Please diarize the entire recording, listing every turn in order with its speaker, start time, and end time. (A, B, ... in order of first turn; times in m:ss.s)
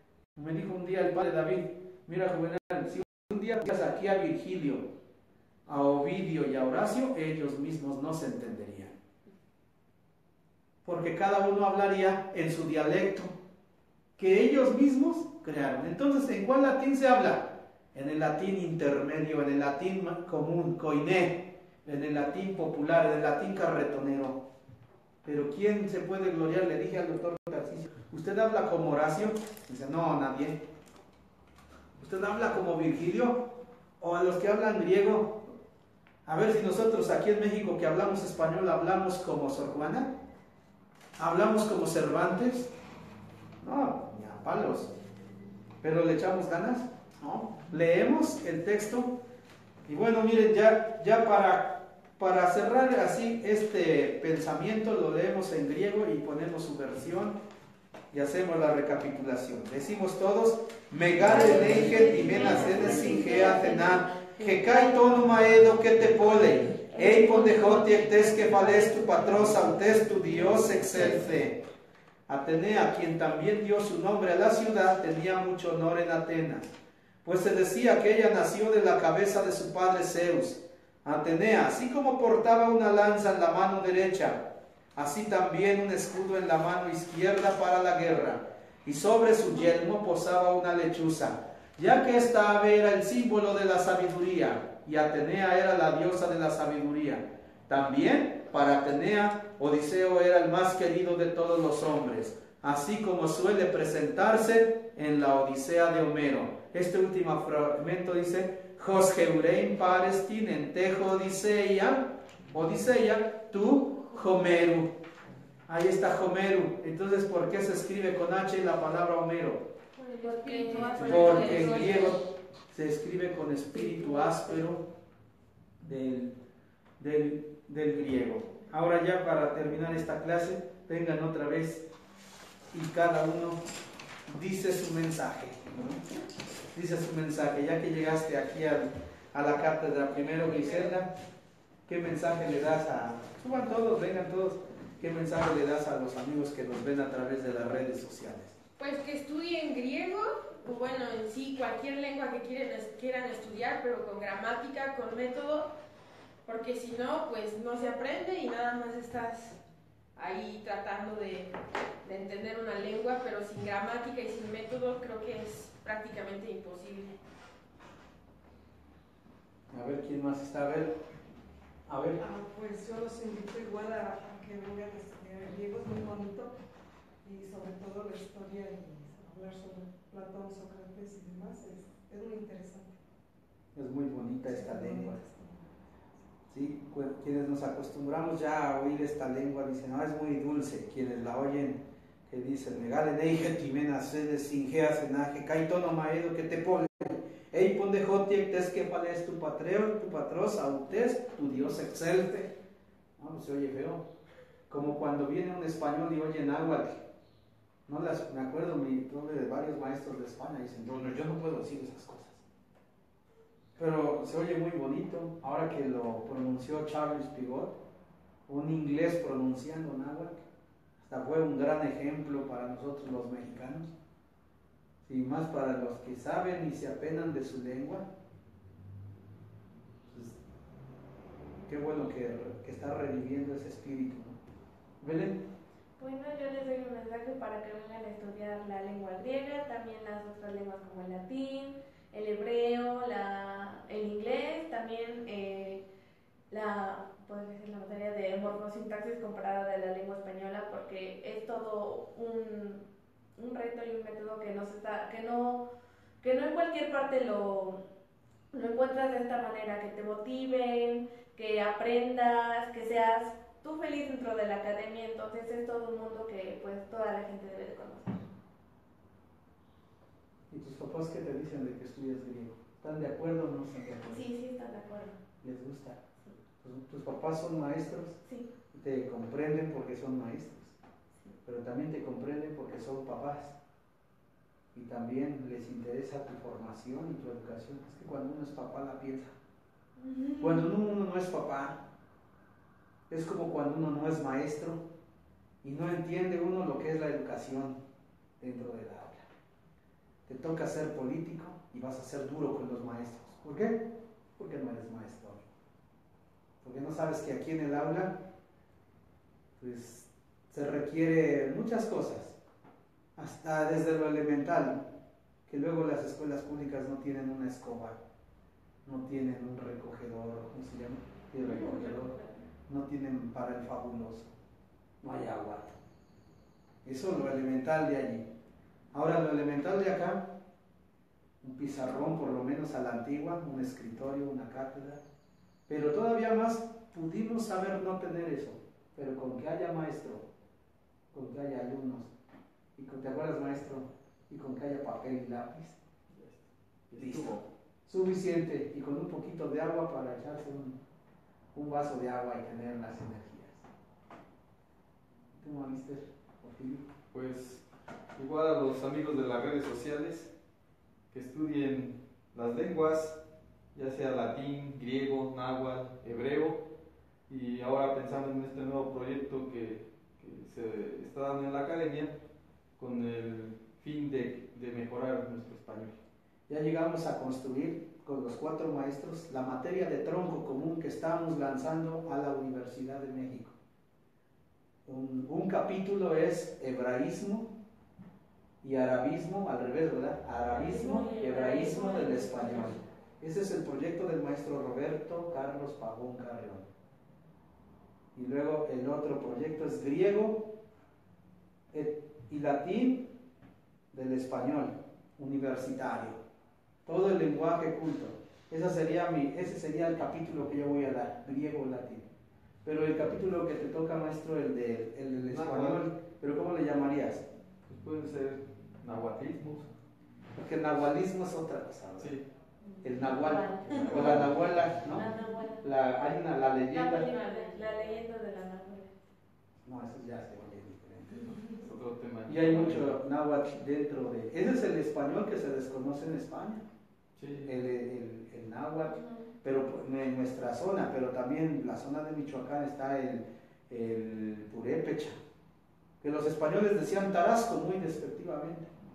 0:00.4-0:04.9 A
0:05.7-0:08.9 A
0:10.8-0:13.4 A
0:14.2-0:24.4 A
0:25.2-0:30.6 A
0:32.0-0:35.4 A
0:36.2-0:40.1 A
0:41.2-0:42.7 A
0:43.6-0:44.9 A
0:45.8-0:49.2 A
0:49.9-0:57.4 A
0:58.1-1:11.6 A
1:01.2-1:05.2 B
1:06.9-1:09.7 B
1:10.9-1:11.2 B
1:12.3-1:16.7 A
1:17.2-1:24.4 A
1:24.9-1:55.0 A
1:55.7-1:59.7 A
2:00.0-2:02.2 C
2:00.2-2:02.2 B
2:00.8-2:04.8 A
2:04.0-2:04.3 B
2:05.8-2:06.4 A
2:07.0-2:11.9 A
2:12.7-2:13.6 A
2:14.3-2:16.0 A
2:16.7-2:21.1 A
2:20.6-2:20.9 C
2:21.9-2:28.6 A
2:28.8-2:35.7 C
2:36.4-2:39.6 C
2:40.2-2:47.2 C
2:49.7-2:51.0 A
2:51.9-2:52.2 A
2:52.2-2:56.6 D
2:57.2-3:03.0 D
3:03.7-3:05.2 A
3:04.4-3:05.6 D
3:06.5-3:22.5 A
3:23.2-3:24.0 A
3:24.7-3:27.0 A
3:27.9-3:32.4 A
3:33.8-3:37.8 A
3:38.5-3:40.4 A
3:41.0-3:43.9 A
3:45.0-3:48.0 A
3:50.1-3:50.4 A
3:51.7-3:54.4 A
3:55.0-3:55.4 A
3:56.0-4:05.8 B
4:06.5-4:12.8 B
4:13.4-4:15.6 B
4:16.2-4:17.8 B
4:18.5-4:28.3 B
4:30.5-4:34.3 A
4:34.1-4:35.2 B
4:35.4-4:36.0 A
4:36.6-4:38.2 A
4:38.2-4:38.5 B
4:38.7-4:40.8 A
4:41.4-4:43.6 A
4:44.7-4:49.3 A
4:50.0-4:50.7 B
4:50.4-4:51.8 A
4:53.1-4:54.8 A
4:55.6-4:57.8 A
4:58.4-4:59.3 A
5:00.2-5:03.8 A
5:04.4-5:05.4 A
5:06.6-5:08.2 A
5:09.6-5:12.4 A
5:13.2-5:14.8 A
5:15.5-5:18.0 A
5:18.8-5:22.1 A
5:21.5-5:22.3 B
5:22.7-5:24.3 A
5:25.0-5:25.7 A
5:26.8-5:28.3 A
5:28.9-5:30.2 A
5:31.4-5:35.0 A
5:35.7-5:40.2 A
5:41.1-5:42.1 A
5:42.8-5:45.8 A
5:46.1-5:47.4 E
5:47.0-5:50.8 A
5:51.5-5:53.7 A
5:55.3-5:56.9 A
5:57.1-5:57.6 E
5:58.2-6:00.3 E
6:01.1-6:03.2 E
6:03.7-6:06.6 E
6:07.3-6:12.1 E
6:12.8-6:16.0 E
6:16.5-6:23.6 A
6:24.8-6:27.5 A
6:28.6-6:36.7 A
6:30.5-6:32.8 B
6:38.1-6:40.5 A
6:41.7-6:43.1 A
6:43.9-6:46.2 A
6:46.8-6:52.1 A
6:52.6-6:57.2 A
6:55.3-6:55.8 E
6:57.6-6:59.7 E
7:00.4-7:02.2 A
7:02.6-7:04.3 B
7:02.8-7:07.1 A
7:03.6-7:05.0 E
7:04.9-7:05.6 B
7:06.7-7:09.0 B
7:06.9-7:08.0 C
7:09.6-7:11.4 A
7:11.6-7:13.0 E
7:12.3-7:16.6 A
7:17.2-7:17.5 E
7:17.4-7:25.2 A
7:26.0-7:28.7 A